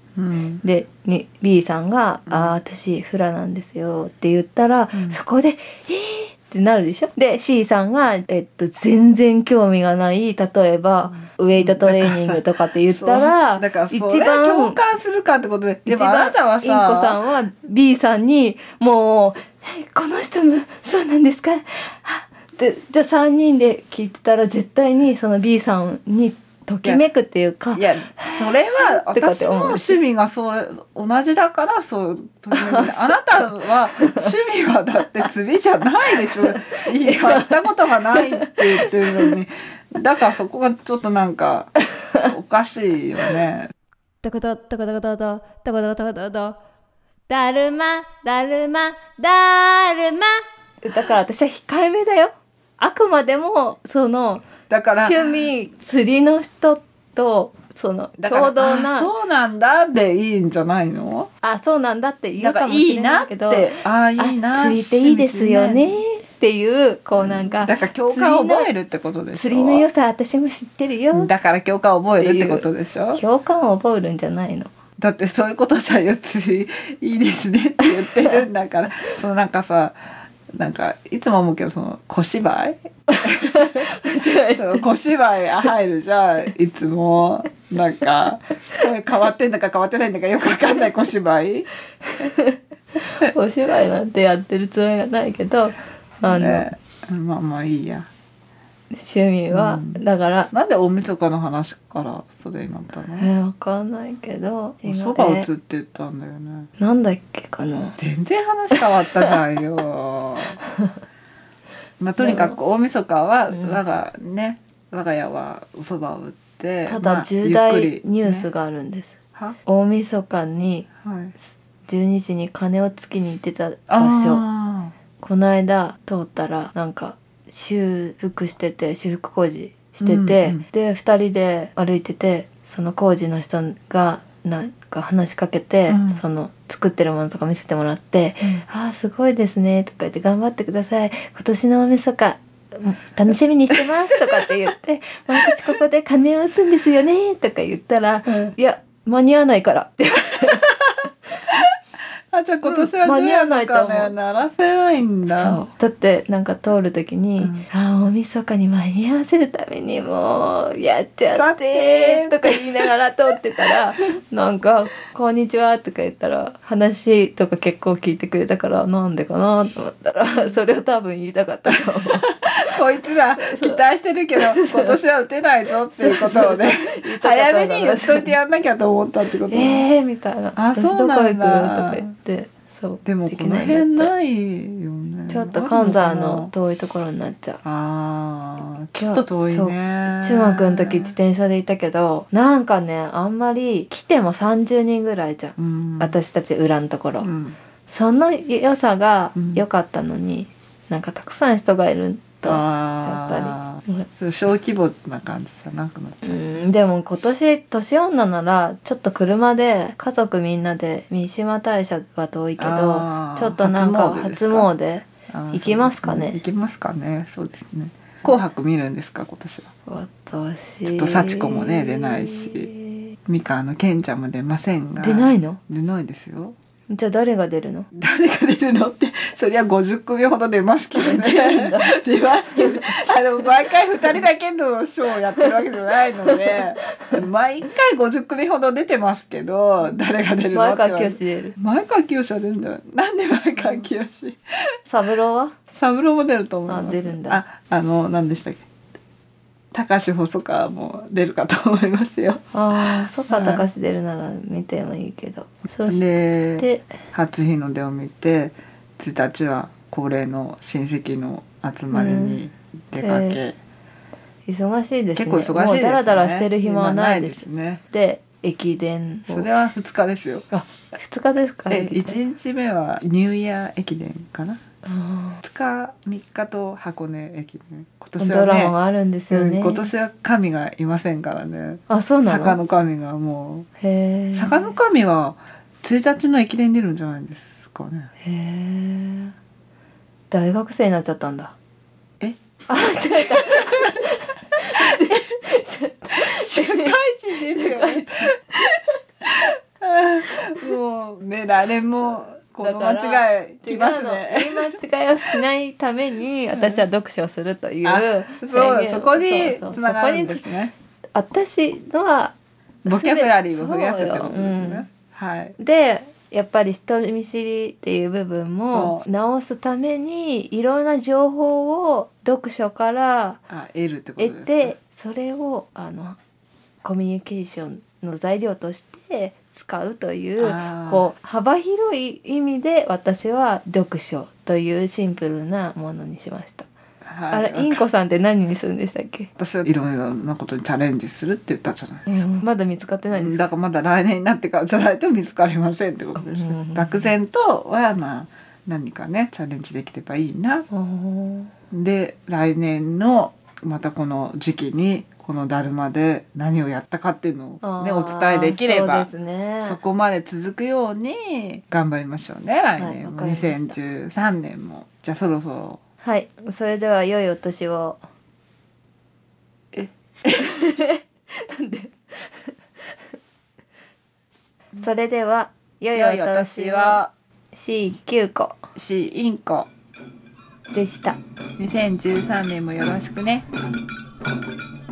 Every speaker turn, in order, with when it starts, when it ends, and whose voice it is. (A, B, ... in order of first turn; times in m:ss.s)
0:00.2-0:00.6 A
0:00.6-0:14.8 B
0:02.3-0:02.5 A
0:04.9-0:05.2 A
0:11.6-0:17.2 A
0:15.8-0:30.0 B
0:27.7-0:43.7 A
0:32.5-0:32.9 B
0:36.3-0:37.6 B
0:38.1-0:39.3 B
0:44.2-0:46.6 B
0:47.3-0:59.1 B
0:54.7-0:55.4 A
0:58.2-1:01.3 A
1:01.4-1:08.7 B
1:02.4-1:06.0 A
1:07.2-1:09.8 A
1:09.3-1:11.3 B
1:11.1-1:13.2 A
1:12.2-1:14.7 B
1:15.0-1:20.0 A
1:20.5-1:31.7 A
1:23.1-1:24.8 B
1:32.2-1:36.7 B
1:36.3-1:38.1 A
1:38.9-1:40.5 B
1:39.5-1:43.3 A
1:43.2-1:45.5 B
1:44.8-1:46.7 A
1:46.8-1:48.0 B
1:48.0-1:50.6 A
1:52.0-1:58.5 A
1:52.2-1:52.6 B
1:56.9-2:00.9 B
2:01.0-2:01.3 A
2:01.9-2:04.4 B
2:03.9-2:04.9 A
2:05.2-2:30.7 B
2:10.0-2:10.6 A
2:15.9-2:16.2 A
2:28.3-2:28.5 A
2:32.3-2:35.6 A
2:32.6-2:34.1 B
2:35.3-2:52.8 B
2:37.4-2:37.7 A
2:41.3-2:42.9 A
2:52.2-2:59.8 A
2:53.4-2:53.8 B
2:54.4-2:54.9 B
2:56.0-2:58.3 B
2:59.4-3:04.1 B
3:00.6-3:02.1 A
3:03.0-3:06.5 A
3:05.3-3:07.6 B
3:07.6-3:11.1 A
3:09.0-3:17.3 B
3:15.6-3:16.2 A
3:17.2-3:17.6 A
3:17.9-3:24.1 B
3:19.4-3:19.6 A
3:22.4-3:26.4 A
3:26.2-3:36.4 B
3:32.6-3:34.7 A
3:35.3-3:39.7 A
3:39.8-3:43.1 B
3:40.8-3:42.7 A
3:43.3-3:46.5 A
3:45.0-3:45.6 B
3:46.9-3:47.9 B
3:47.9-4:04.4 A
3:50.9-3:53.0 B
4:00.5-4:01.6 B
4:04.8-4:05.6 B
4:05.7-4:08.6 A
4:06.7-4:07.4 B
4:09.7-4:13.6 A
4:12.5-4:16.0 B
4:15.9-4:23.6 A
4:16.6-4:16.9 B
4:21.9-4:22.4 B
4:23.0-4:23.4 B
4:24.4-4:29.5 B
4:25.2-4:27.8 A
4:29.3-4:30.4 A
4:30.5-4:32.2 B
4:31.7-4:34.6 A
4:34.8-4:35.4 B
4:35.4-4:38.7 A
4:38.2-4:39.9 B
4:39.3-4:43.7 A
4:41.9-4:42.6 B
4:43.8-4:44.7 B
4:44.3-4:48.1 A
4:48.2-4:49.3 B
4:50.3-4:51.5 B
4:52.7-4:57.0 B
4:53.1-4:53.7 A
4:56.1-4:58.6 A
4:57.5-4:58.3 B
4:59.2-5:04.7 A
5:02.6-5:10.4 B
5:07.8-5:10.7 A
5:11.1-5:12.3 B
5:12.8-5:15.6 A
5:12.8-5:14.8 B
5:15.6-5:23.4 B
5:18.7-5:19.0 A
5:23.5-5:24.7 A
5:24.2-5:26.2 B
5:26.8-5:36.6 B
5:30.4-5:31.1 A
5:37.0-5:37.8 A
5:37.3-5:39.3 B
5:39.4-5:42.4 A
5:42.1-5:43.4 B
5:43.1-5:50.7 A
5:46.2-5:47.1 B
5:50.7-5:51.5 B
5:51.7-5:59.1 A
5:57.6-5:59.8 B
5:59.6-6:05.8 A
6:02.8-6:03.8 B
6:06.0-6:08.0 B
6:09.7-6:10.5 A
6:10.3-6:12.5 B
6:14.8-6:18.6 B
6:15.9-6:17.1 A
6:18.7-6:19.7 A
6:20.7-6:21.2 B
6:21.6-6:23.5 A